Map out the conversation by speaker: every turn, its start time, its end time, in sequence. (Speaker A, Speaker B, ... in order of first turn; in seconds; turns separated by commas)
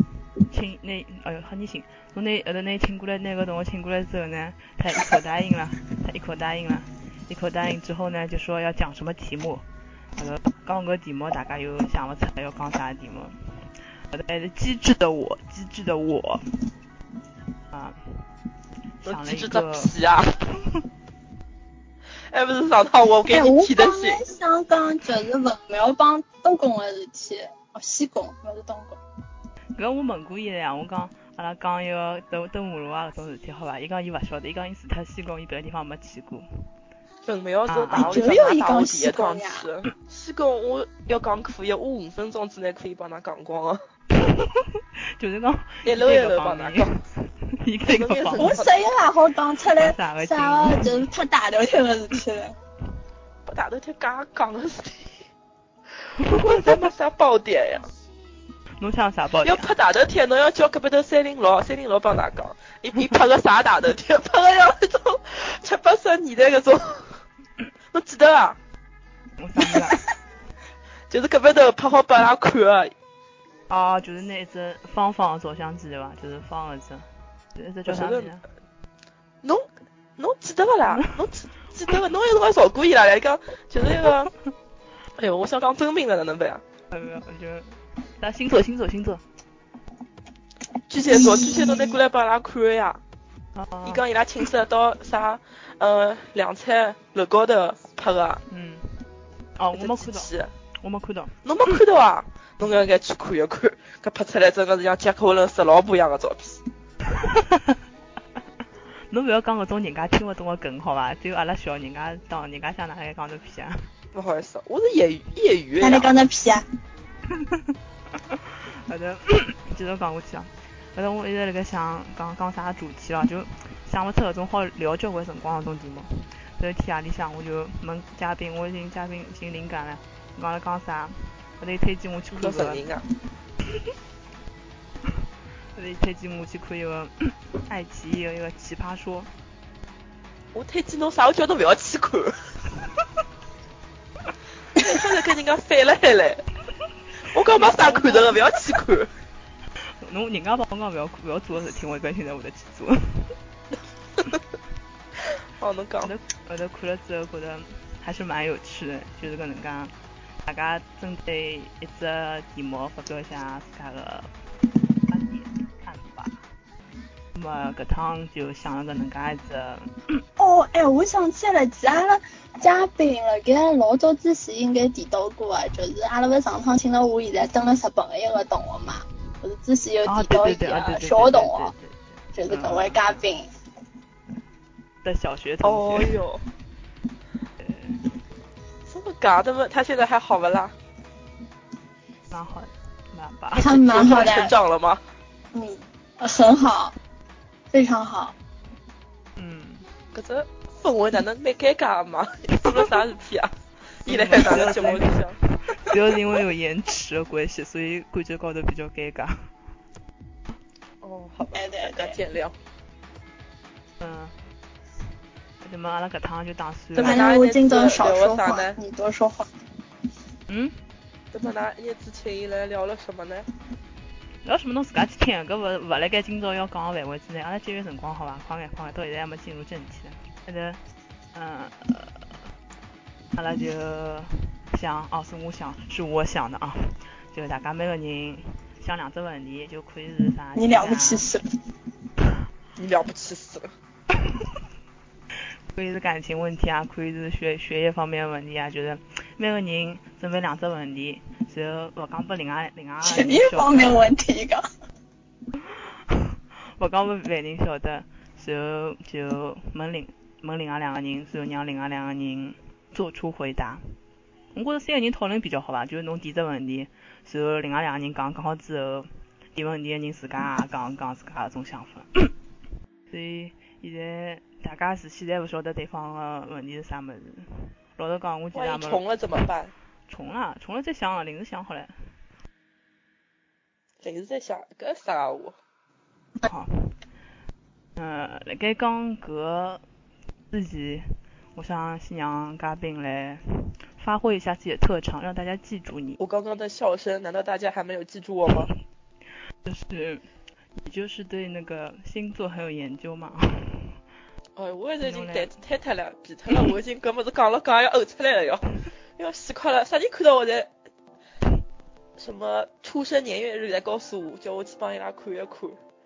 Speaker A: 0.5-9.6, Speaker A: 10.2-13.6, Speaker A: 14.1-16.4, Speaker A: 17.7-18.2, Speaker A: 19.0-19.9, Speaker B: 19.0-20.3, Speaker A: 20.5-20.8, Speaker B: 22.3-24.2, Speaker C: 23.3-29.0, Speaker A: 29.7-36.5, Speaker B: 37.2-43.8, Speaker A: 37.7-38.3, Speaker C: 37.9-39.7, Speaker A: 44.1-48.6, Speaker B: 45.9-46.9, Speaker B: 47.9-48.7, Speaker C: 48.4-52.5, Speaker A: 49.7-51.1, Speaker B: 53.5-55.2, Speaker A: 56.2-56.8, Speaker B: 56.2-57.9, Speaker A: 58.8-59.7, Speaker B: 59.4-67.2, Speaker B: 67.9-68.6, Speaker A: 69.4-70.0, Speaker B: 71.1-72.9, Speaker A: 73.7-78.5, Speaker B: 77.9-78.3, Speaker B: 80.2-84.3, Speaker B: 85.2-86.6, Speaker A: 86.9-89.2, Speaker B: 90.9-93.0, Speaker C: 91.1-92.0, Speaker A: 93.5-94.0, Speaker B: 93.8-98.4, Speaker A: 98.5-99.0, Speaker A: 99.6-101.4, Speaker B: 99.7-100.5, Speaker B: 101.4-106.6, Speaker A: 107.1-107.8, Speaker A: 109.1-113.9, Speaker B: 114.1-116.1, Speaker C: 115.8-116.6, Speaker A: 117.3-132.8, Speaker B: 132.3-133.0, Speaker A: 135.7-139.3, Speaker B: 140.5-142.3, Speaker B: 144.8-146.4, Speaker B: 147.3-149.1, Speaker A: 147.5-148.5, Speaker A: 150.0-153.3, Speaker B: 155.6-156.1, Speaker A: 156.0-164.3, Speaker A: 165.1-166.4, Speaker A: 167.3-170.2, Speaker C: 170.4-181.7, Speaker A: 180.0-183.2, Speaker C: 182.3-183.5, Speaker A: 185.0-186.1, Speaker B: 185.6-186.4, Speaker A: 187.6-188.0, Speaker B: 188.9-190.7, Speaker A: 192.3-193.7, Speaker C: 193.6-194.5, Speaker B: 193.6-195.0, Speaker C: 195.5-196.9, Speaker C: 197.7-198.3, Speaker A: 199.3-199.8, Speaker B: 200.1-203.5, Speaker B: 204.0-205.4, Speaker A: 204.0-209.5, Speaker B: 211.0-212.6, Speaker C: 211.5-212.2, Speaker A: 214.0-214.3, Speaker A: 215.6-217.2, Speaker B: 216.9-218.8, Speaker C: 217.0-219.5, Speaker A: 220.5-220.8, Speaker B: 221.3-223.5, Speaker A: 224.4-230.8, Speaker A: 231.3-232.3, Speaker A: 233.3-241.3, Speaker C: 240.5-241.4, Speaker B: 242.8-243.7, Speaker A: 244.2-244.4, Speaker A: 245.7-254.0, Speaker C: 253.0-254.6, Speaker A: 255.7-264.0, Speaker A: 264.5-272.3, Speaker A: 273.1-279.0, Speaker B: 278.5-279.7, Speaker A: 280.1-282.0, Speaker B: 284.0-285.6, Speaker A: 286.4-287.0, Speaker A: 287.9-289.8, Speaker A: 290.5-296.2, Speaker B: 296.2-298.7, Speaker A: 299.6-300.2, Speaker A: 300.8-304.0, Speaker B: 304.6-310.7, Speaker A: 305.0-305.5, Speaker B: 312.2-315.8